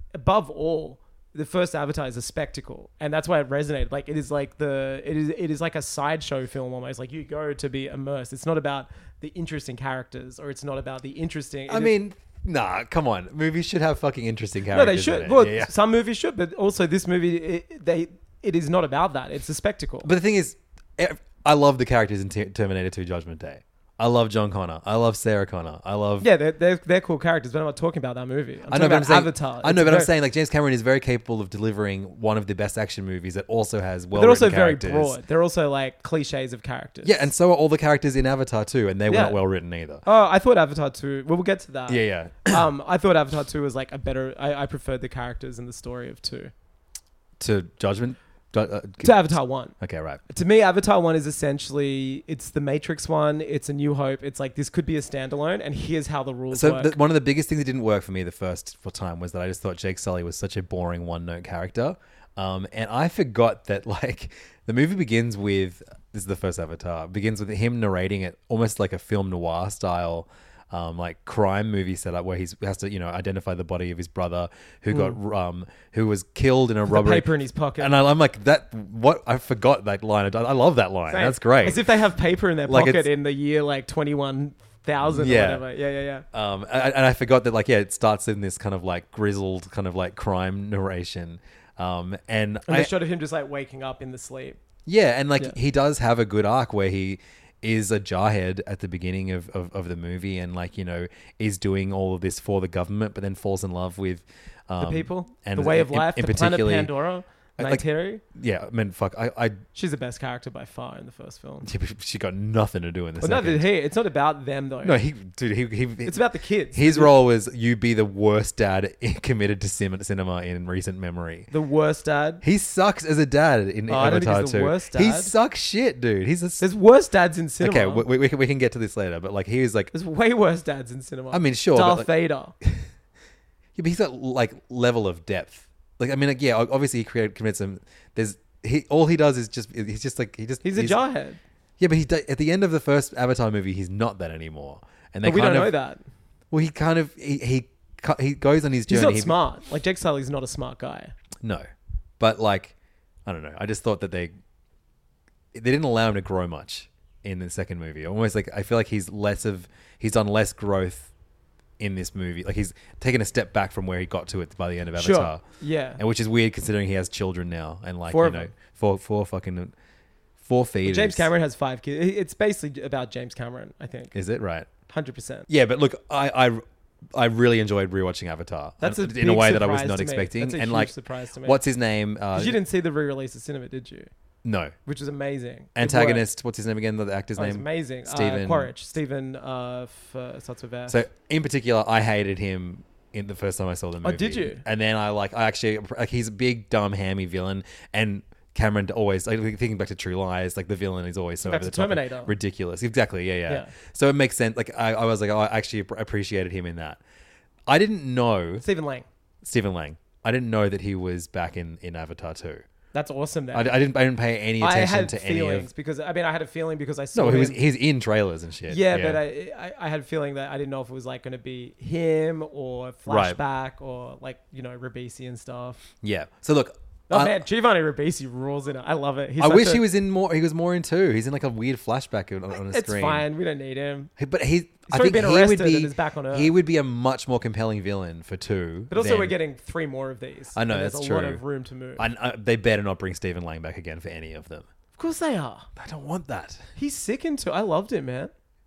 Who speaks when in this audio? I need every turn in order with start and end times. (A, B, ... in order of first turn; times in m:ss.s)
0:00.1-0:12.0 A
0:11.7-0:15.7 B
0:14.7-0:20.1 A
0:20.0-0:26.3 B
0:26.2-0:30.1 A
0:28.7-0:35.2 B
0:34.1-0:37.3 A
0:37.0-0:40.0 B
0:39.1-0:39.4 A
0:40.0-0:46.5 A
0:41.9-0:42.6 B
0:47.4-0:50.2 B
0:49.0-0:49.8 A
0:50.3-0:57.0 A
0:56.5-1:21.9 B
1:14.9-1:15.2 A
1:16.9-1:18.0 A
1:21.1-1:26.3 A
1:22.7-1:23.1 B
1:25.0-1:25.7 B
1:26.3-1:32.9 B
1:32.7-1:34.6 A
1:34.9-1:46.9 B
1:44.8-1:48.2 A
1:47.6-1:49.6 B
1:49.8-1:51.7 A
1:51.6-1:53.7 B
1:53.2-1:55.0 A
1:54.8-2:01.5 B
1:56.0-1:57.2 A
2:01.5-2:02.4 A
2:02.4-2:06.6 B
2:03.9-2:05.3 A
2:06.6-2:08.1 A
2:07.6-2:09.9 B
2:09.9-2:12.6 A
2:11.3-2:12.1 B
2:13.8-2:21.0 B
2:20.6-2:21.4 A
2:21.8-2:25.8 B
2:25.2-2:26.0 A
2:26.5-2:29.4 B
2:28.9-2:31.1 A
2:31.4-2:31.7 B
2:32.2-2:32.7 B
2:33.3-2:34.3 B
2:35.5-2:41.1 B
2:41.8-2:45.4 B
2:45.0-2:46.0 A
2:46.0-2:49.7 B
2:48.1-2:48.5 A
2:50.4-2:51.3 B
2:50.8-2:54.2 A
2:54.1-2:54.7 B
2:54.9-2:55.5 A
2:55.5-3:02.6 B
2:58.8-3:01.6 A
3:02.3-3:04.1 A
3:04.4-3:04.8 B
3:04.9-3:06.3 A
3:05.8-3:08.7 B
3:07.4-3:11.0 A
3:10.9-3:27.0 B
3:14.0-3:14.6 A
3:21.4-3:22.3 A
3:27.7-3:28.6 B
3:28.6-3:29.1 A
3:29.4-3:32.6 B
3:32.9-3:33.8 A
3:33.5-3:35.7 B
3:34.6-3:37.6 A
3:37.2-3:39.2 B
3:38.7-3:45.8 A
3:43.1-3:43.4 B
3:46.0-3:47.4 B
3:47.1-3:49.9 A
3:49.4-3:53.3 B
3:52.5-3:54.1 A
3:54.2-3:59.4 B
3:54.9-3:56.5 A
3:58.9-4:02.1 A
4:00.5-4:01.4 B
4:02.0-4:04.7 B
4:05.0-4:05.7 A
4:05.8-4:06.7 B
4:06.8-4:08.3 A